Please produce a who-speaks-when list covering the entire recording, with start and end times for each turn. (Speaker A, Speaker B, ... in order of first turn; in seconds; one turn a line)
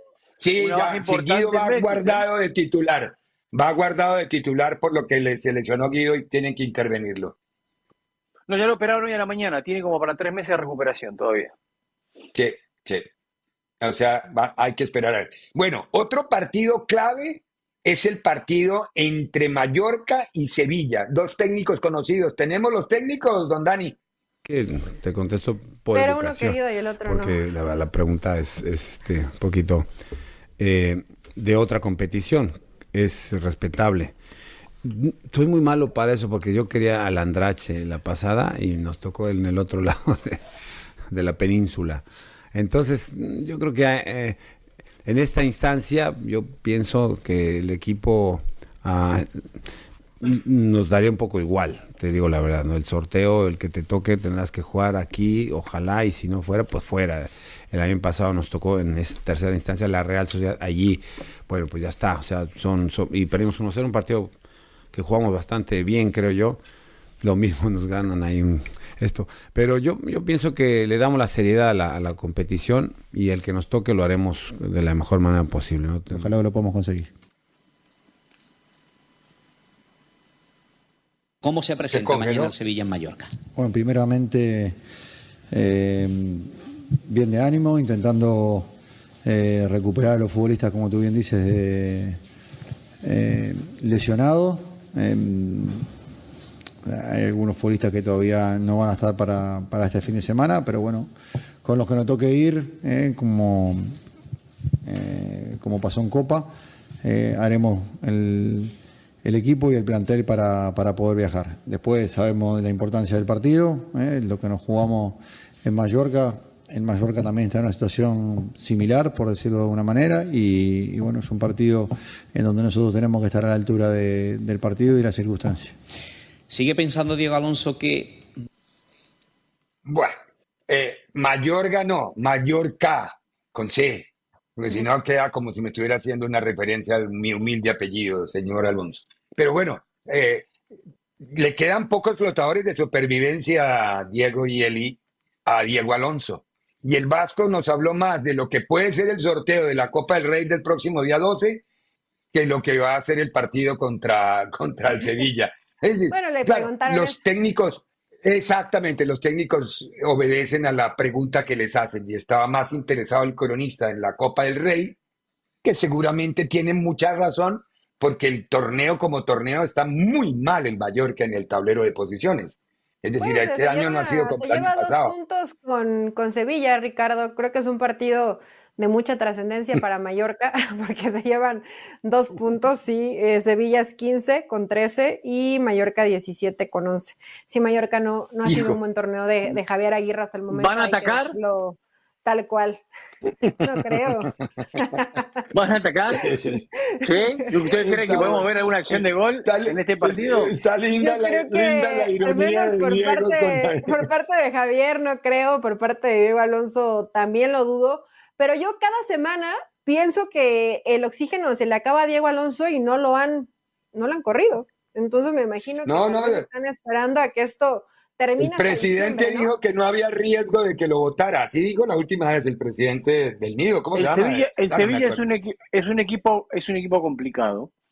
Speaker A: 0.4-7.3
Speaker B: 0.6-2.2
Speaker B: 8.5-11.5
Speaker A: 12.3-13.1
Speaker A: 13.8-23.9
Speaker C: 24.4-29.9
Speaker D: 25.9-27.4
Speaker C: 30.6-34.1
Speaker C: 34.8-40.4
Speaker C: 41.1-44.4
Speaker C: 45.0-49.5
Speaker C: 50.2-64.3
Speaker C: 64.9-66.6
Speaker C: 67.2-76.3
Speaker E: 76.1-77.1
Speaker F: 81.4-83.3
Speaker A: 81.9-82.5
Speaker E: 83.5-84.8
Speaker E: 85.5-88.7
Speaker E: 89.2-92.2
Speaker E: 93.0-95.9
Speaker E: 96.8-101.1
Speaker E: 101.6-104.0
Speaker E: 104.8-125.8
Speaker F: 126.5-128.3
Speaker A: 129.8-130.2
Speaker A: 130.7-140.5
Speaker A: 141.2-151.6
Speaker A: 152.3-165.0
Speaker D: 156.1-157.2
Speaker A: 165.6-175.1
Speaker D: 173.2-192.8
Speaker A: 188.4-188.8
Speaker B: 190.5-191.4
Speaker A: 193.4-194.1
Speaker D: 193.6-195.2
Speaker B: 195.5-196.4
Speaker A: 196.1-196.6
Speaker B: 197.0-200.5
Speaker A: 197.5-204.1
Speaker D: 201.0-219.5
Speaker A: 215.8-216.4
Speaker A: 218.4-225.2
Speaker B: 223.9-227.7